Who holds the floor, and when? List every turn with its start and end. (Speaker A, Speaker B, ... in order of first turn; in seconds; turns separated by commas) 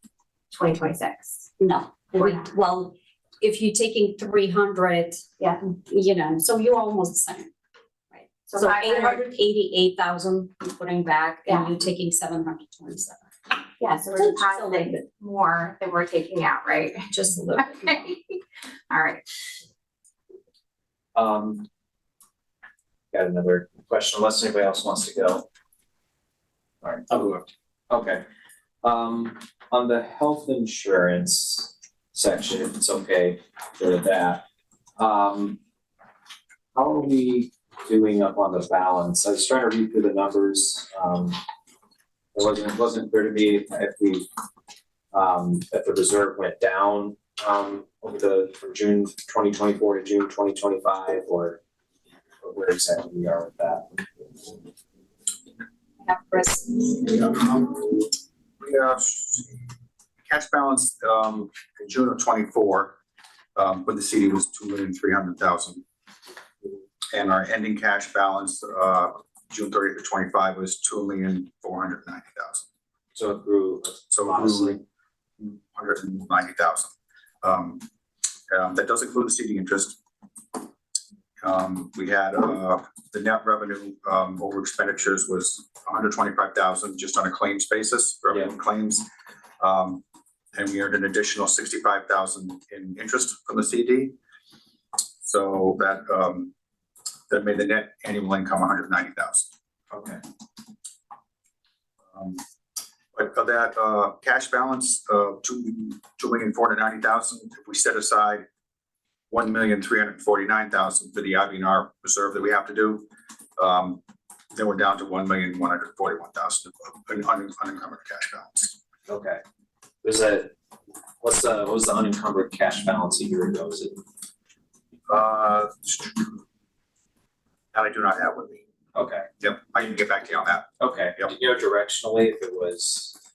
Speaker A: 0.5-1.5, Speaker B: 1.6-7.5, Speaker A: 2.1-2.5, Speaker A: 5.4-5.7, Speaker B: 8.1-13.6, Speaker A: 8.5-9.2, Speaker A: 13.8-19.3, Speaker B: 14.2-15.0, Speaker B: 17.1-18.1, Speaker C: 21.1-21.7, Speaker C: 23.1-25.5, Speaker C: 26.8-28.2, Speaker C: 28.8-34.5, Speaker C: 35.0-35.6, Speaker C: 36.8-41.4, Speaker C: 42.4-44.3, Speaker C: 45.1-51.6, Speaker C: 52.4-54.5, Speaker B: 56.3-56.6, Speaker D: 57.0-59.7, Speaker D: 60.3-63.0, Speaker D: 63.5-65.8, Speaker D: 67.1-72.6, Speaker C: 73.2-74.8, Speaker D: 74.1-74.8, Speaker D: 75.4-76.9, Speaker D: 77.4-77.8, Speaker D: 78.5-80.0, Speaker D: 81.4-89.1, Speaker D: 89.6-90.0, Speaker D: 90.5-94.2, Speaker D: 95.2-96.5, Speaker D: 97.3-99.5, Speaker C: 99.9-100.2, Speaker D: 102.1-102.4, Speaker D: 103.1-108.5, Speaker D: 109.3-113.1, Speaker D: 113.6-114.0, Speaker D: 114.5-118.8, Speaker C: 119.1-119.4, Speaker C: 120.0-120.5, Speaker C: 121.2-124.0, Speaker D: 125.1-126.4, Speaker D: 127.7-128.6, Speaker C: 128.9-129.3, Speaker D: 129.4-131.3, Speaker C: 130.8-133.2